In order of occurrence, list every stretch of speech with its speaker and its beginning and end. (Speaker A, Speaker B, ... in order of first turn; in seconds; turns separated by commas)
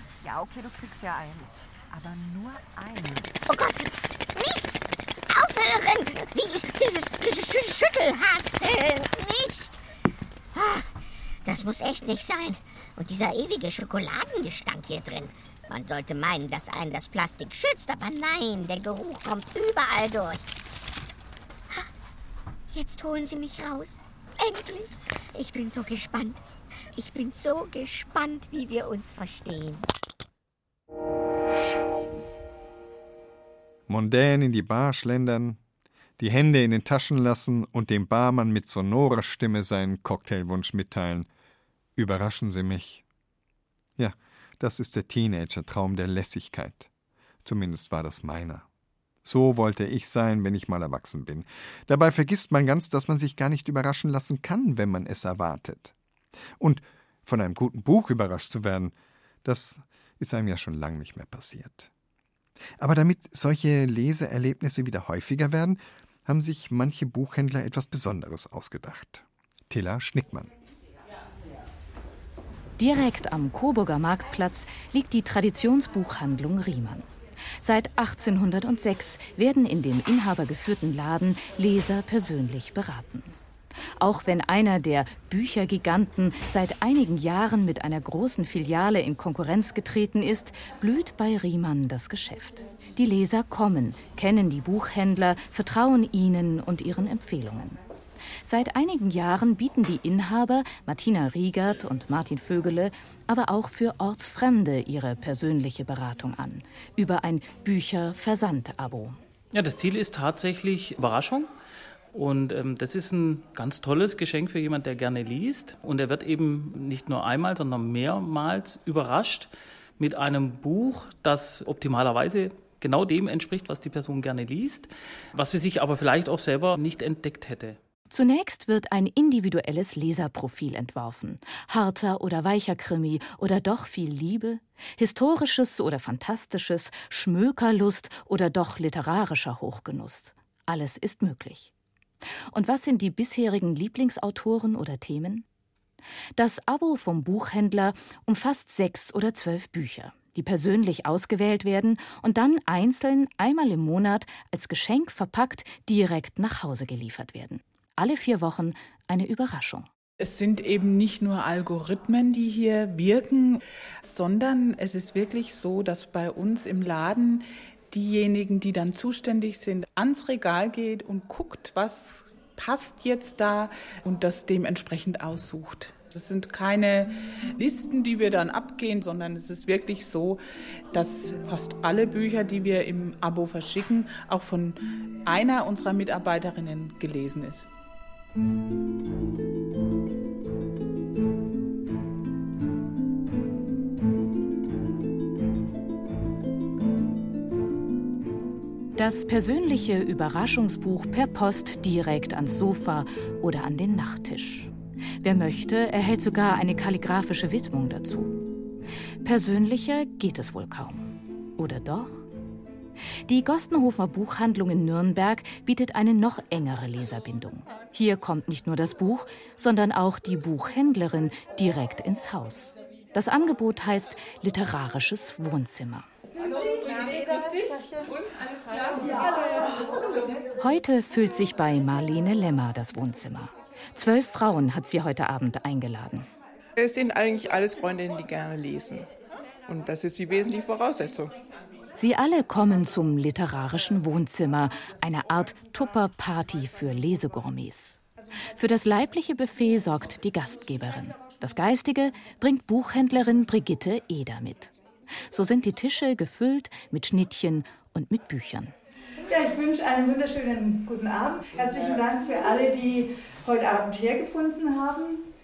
Speaker A: 0.2-3.5, Speaker B: 3.5-4.8, Speaker B: 5.3-9.8, Speaker B: 10.5-10.9, Speaker B: 11.4-20.4, Speaker B: 22.7-26.4, Speaker B: 27.0-29.9, Speaker C: 33.9-35.6, Speaker C: 36.2-41.3, Speaker C: 42.0-43.0, Speaker C: 44.0-46.9, Speaker C: 47.4-48.6, Speaker C: 49.2-55.9, Speaker C: 56.6-58.9, Speaker C: 59.4-61.9, Speaker C: 62.8-70.5, Speaker D: 72.8-77.1, Speaker D: 77.6-83.3, Speaker D: 84.0-97.8, Speaker D: 98.4-109.2, Speaker E: 109.5-111.5, Speaker E: 112.1-127.8, Speaker D: 128.1-141.7, Speaker D: 142.5-145.4, Speaker D: 146.3-159.9, Speaker F: 160.2-180.4, Speaker F: 180.9-187.7, Speaker D: 199.0-208.4, Speaker D: 209.2-212.3, Speaker D: 213.3-226.1, Speaker D: 230.6-236.3, Speaker G: 236.8-239.1, Speaker G: 239.7-241.3, Speaker D: 241.9-248.0, Speaker D: 248.6-254.7, Speaker D: 255.3-258.7, Speaker H: 259.3-265.3